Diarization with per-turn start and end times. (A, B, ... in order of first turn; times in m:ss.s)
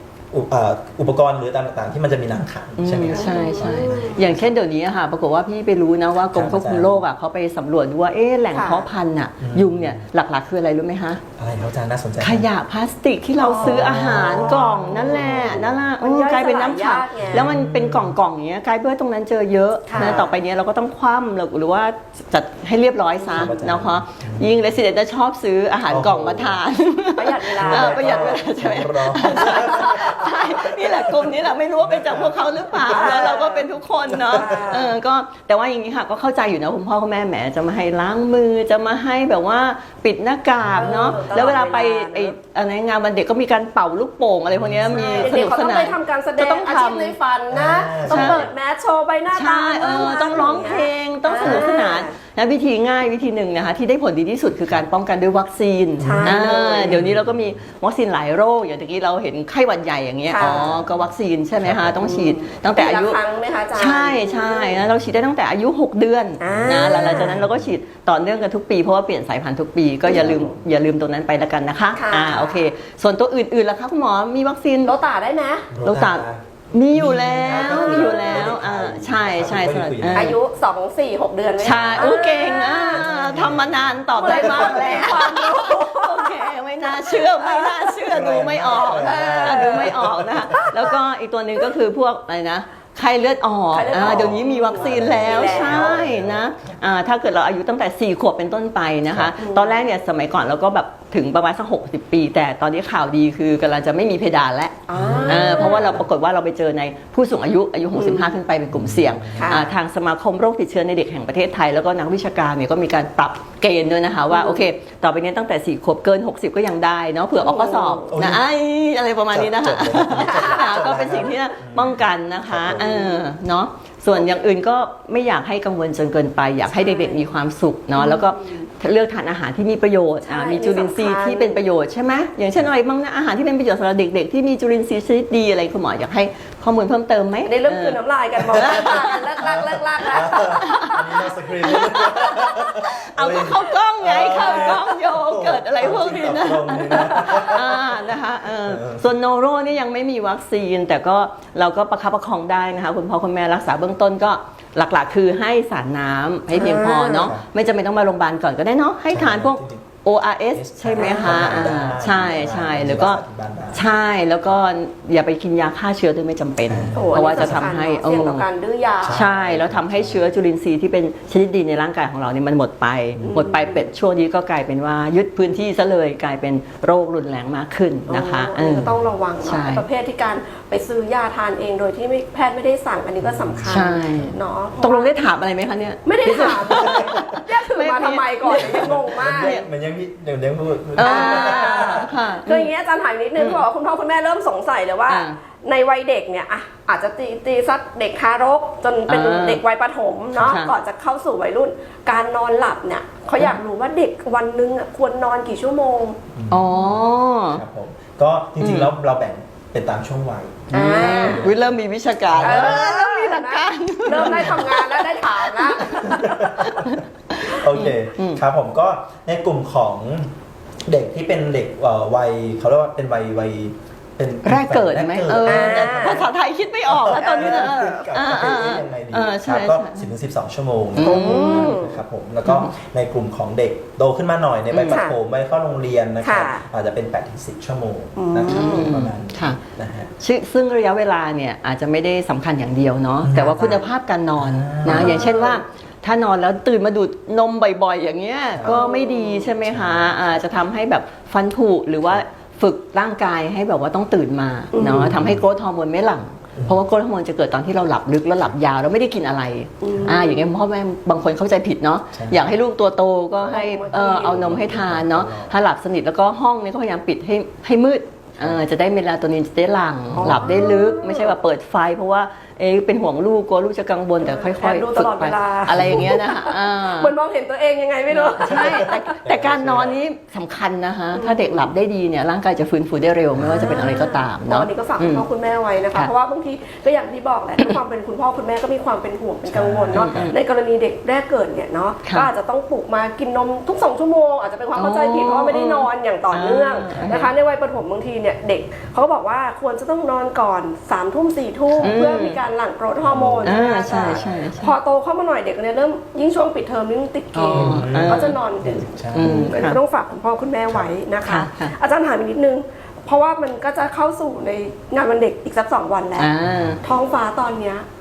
0:00.3-0:04.5 A
0:02.8-0:11.2 B
0:03.1-0:04.3 C
0:06.2-0:07.0 A
0:08.5-0:08.9 C
0:09.4-0:10.0 A
0:11.4-0:12.5 A
0:12.2-0:47.2 B
0:13.4-0:17.5 C
0:13.6-0:15.9 A
0:17.2-0:18.2 A
0:19.9-0:20.3 C
0:19.9-0:20.3 A
0:23.3-0:24.6 A
0:25.9-0:26.6 A
0:27.2-0:28.4 C
0:27.6-0:33.4 A
0:29.7-0:30.0 C
0:32.9-0:35.0 C
0:34.1-0:34.7 A
0:40.6-0:41.4 A
0:40.8-0:42.3 C
0:44.5-0:45.3 A
0:44.9-0:52.1 C
0:47.5-0:48.5 A
0:48.1-0:48.5 B
0:49.3-1:03.2 B
0:49.8-0:50.8 A
0:51.4-0:51.7 A
0:56.0-0:57.6 A
0:56.0-0:57.0 C
1:00.3-1:00.7 C
1:00.4-1:02.2 A
1:02.0-1:04.8 C
1:03.8-1:14.9 B
1:04.9-1:05.2 A
1:06.4-1:07.4 C
1:06.5-1:07.7 A
1:10.1-1:10.6 A
1:10.1-1:10.4 C
1:12.0-1:12.7 C
1:14.8-1:15.7 C
1:15.7-1:20.4 A
1:15.8-1:20.4 B
1:17.6-1:18.5 C
1:20.1-1:23.1 C
1:21.6-1:44.8 B
1:21.7-1:22.4 A
1:22.9-1:25.0 A
1:24.2-1:28.0 C
1:28.1-1:31.0 A
1:28.7-1:30.0 C
1:33.7-1:36.0 C
1:33.9-1:36.8 A
1:39.1-1:39.4 A
1:39.4-1:39.8 C
1:44.9-1:46.0 C
1:44.9-1:46.0 A
1:45.3-2:18.0 B
1:48.0-1:48.4 C
1:48.7-1:49.6 A
1:49.4-1:49.7 C
1:54.3-1:54.6 C
1:57.4-1:58.1 C
1:58.1-1:58.4 A
1:59.3-2:02.9 A
2:00.3-2:01.0 C
2:02.8-2:03.0 C
2:06.7-2:07.3 C
2:08.0-2:08.7 C
2:10.2-2:11.6 C
2:17.5-2:20.7 C
2:18.4-2:29.1 A
2:18.5-2:19.2 B
2:20.6-2:43.2 B
2:24.3-2:24.8 C
2:25.9-2:26.3 C
2:36.5-2:37.3 C
2:37.1-2:37.4 A
2:39.1-2:39.9 A
2:40.5-2:43.8 A
2:41.0-2:41.7 C
2:43.7-2:48.5 B
2:46.7-2:47.7 A
2:46.9-2:49.2 C
2:49.0-2:50.3 A
2:49.1-2:58.9 B
2:53.2-2:53.5 A
2:53.3-2:53.8 C
2:58.1-3:05.1 C
2:59.4-2:59.8 B
3:03.2-3:04.3 A
3:03.7-3:09.7 B
3:06.1-3:09.6 C
3:06.8-3:07.3 A
3:08.6-3:12.1 A
3:11.0-3:12.7 B
3:11.0-3:26.2 C
3:13.4-3:13.6 B
3:15.1-3:15.4 B
3:19.1-3:19.6 B
3:20.4-3:20.8 B
3:26.3-3:31.8 A
3:26.5-3:27.6 B
3:28.6-3:28.9 B
3:30.7-3:31.4 C
3:30.9-3:38.4 B
3:32.3-3:32.9 A
3:32.4-3:36.5 C
3:34.1-3:34.6 A
3:36.0-3:40.3 A
3:40.9-3:46.3 A
3:44.4-3:50.1 B
3:45.4-3:46.3 C
3:46.9-4:00.1 A
3:47.1-3:48.0 C
3:51.0-3:51.8 B
3:51.0-3:52.0 C
3:52.5-3:52.7 B
3:54.7-3:55.0 B
3:54.9-3:55.2 C
3:56.2-3:56.6 C
3:58.2-3:58.9 C
3:58.5-3:59.6 B
4:00.2-4:37.1 B
4:03.2-4:03.8 A
4:03.6-4:03.9 C
4:04.4-4:05.5 A
4:04.9-4:05.6 C
4:08.6-4:08.8 A
4:08.6-4:09.5 C
4:09.6-4:10.4 A
4:14.7-4:15.2 C
4:15.1-4:15.4 A
4:19.8-4:20.4 C
4:19.9-4:20.2 A
4:22.1-4:22.6 A
4:23.4-4:24.8 C
4:23.9-4:25.6 A
4:30.1-4:30.6 A
4:30.2-4:31.3 C
4:34.2-4:39.0 C
4:35.7-4:36.1 A
4:38.1-4:45.2 B
4:38.4-4:40.0 A
4:41.1-4:41.5 C
4:43.3-4:44.0 A
4:43.5-5:16.3 C
4:49.5-4:50.3 A
4:49.9-4:50.4 B
4:54.8-4:57.3 B
5:01.7-5:02.2 A
5:01.8-5:02.4 B
5:03.0-5:04.7 A
5:03.4-5:04.7 B
5:07.3-5:08.4 B
5:07.5-5:09.4 A
5:09.1-5:09.8 B
5:11.2-5:11.7 B
5:16.2-5:16.8 B
5:16.4-5:16.8 A
5:16.8-5:17.8 C